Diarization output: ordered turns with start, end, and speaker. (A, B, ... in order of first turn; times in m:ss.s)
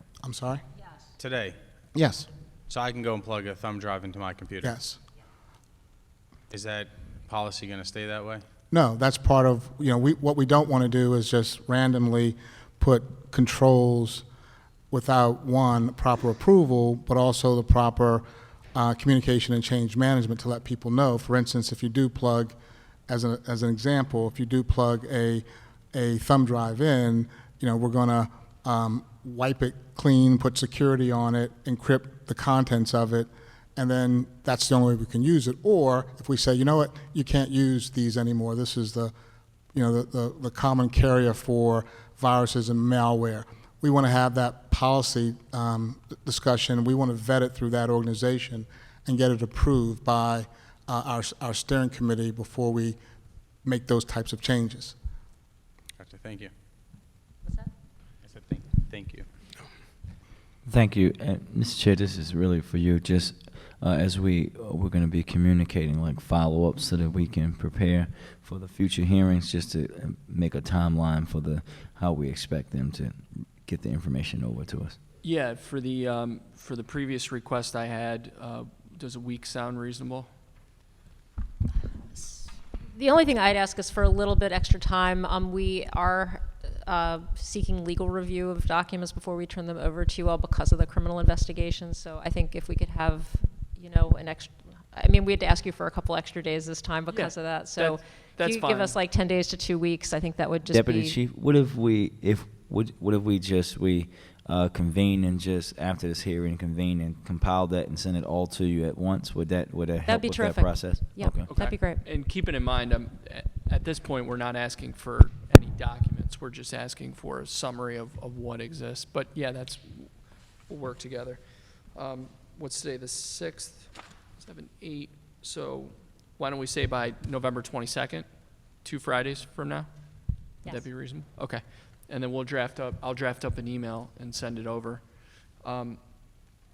0:00.2-0:00.6 A
0:01.2-0:01.6 B
0:01.9-0:02.3 A
0:02.7-0:04.8 B
0:04.6-0:05.0 A
0:06.5-0:08.4 B
0:08.7-0:14.2 A
0:14.9-0:22.6 A
0:23.1-0:39.1 A
0:39.7-0:53.0 A
0:53.6-0:55.0 A
0:56.0-0:56.5 B
0:58.2-0:59.3 B
1:00.6-1:15.0 C
1:15.2-1:20.3 D
1:22.2-1:22.4 E
1:22.9-1:41.2 E
1:37.1-1:39.0 D
1:40.7-1:51.5 C
1:50.0-1:52.0 E
1:51.5-2:01.4 D
2:01.9-2:08.3 D
2:08.8-2:09.9 D
2:10.7-2:15.0 D
2:15.6-2:16.0 D